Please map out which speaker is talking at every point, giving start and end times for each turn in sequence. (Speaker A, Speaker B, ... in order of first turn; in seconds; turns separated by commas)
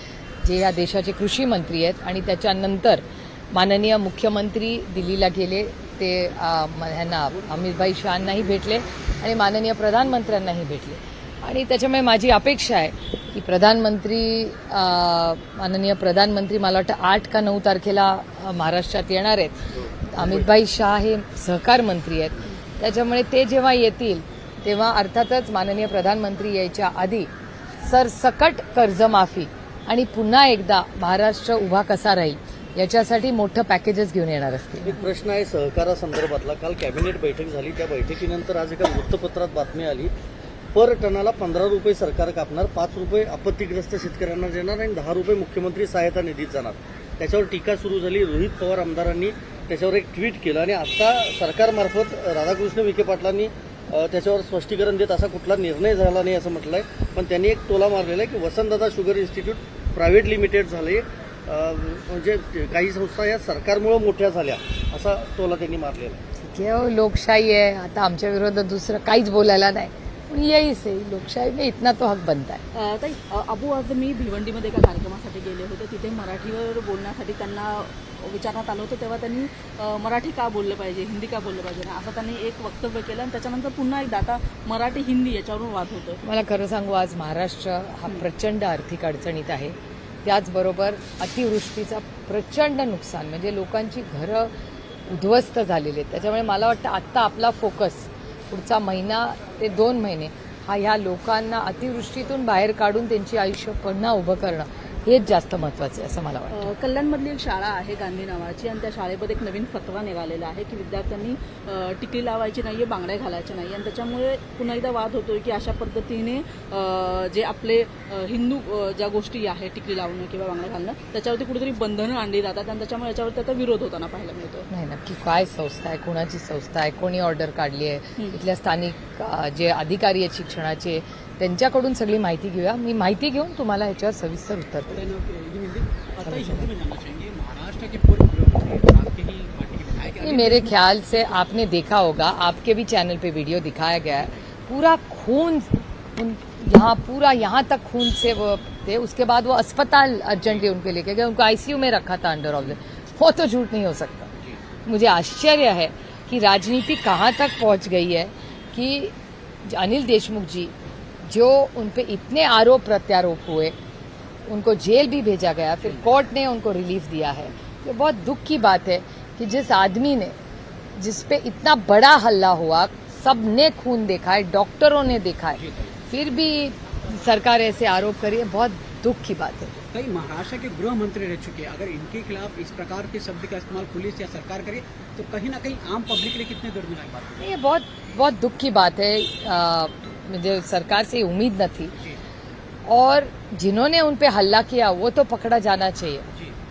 Speaker A: 0.4-27.3, Speaker B: 19.8-20.4, Speaker A: 27.8-35.0, Speaker B: 34.9-40.1, Speaker B: 40.7-66.2, Speaker A: 66.4-72.6, Speaker C: 72.7-86.2, Speaker A: 86.2-94.5, Speaker A: 95.1-106.7, Speaker C: 106.5-124.7, Speaker A: 124.7-135.0, Speaker D: 134.9-141.5, Speaker A: 136.2-136.7, Speaker A: 140.2-154.3, Speaker A: 154.9-159.1, Speaker A: 159.7-160.7, Speaker A: 161.2-163.8, Speaker A: 164.5-170.3, Speaker A: 171.0-179.8, Speaker D: 175.6-175.9, Speaker D: 179.9-187.5, Speaker A: 187.4-192.0, Speaker A: 192.9-196.3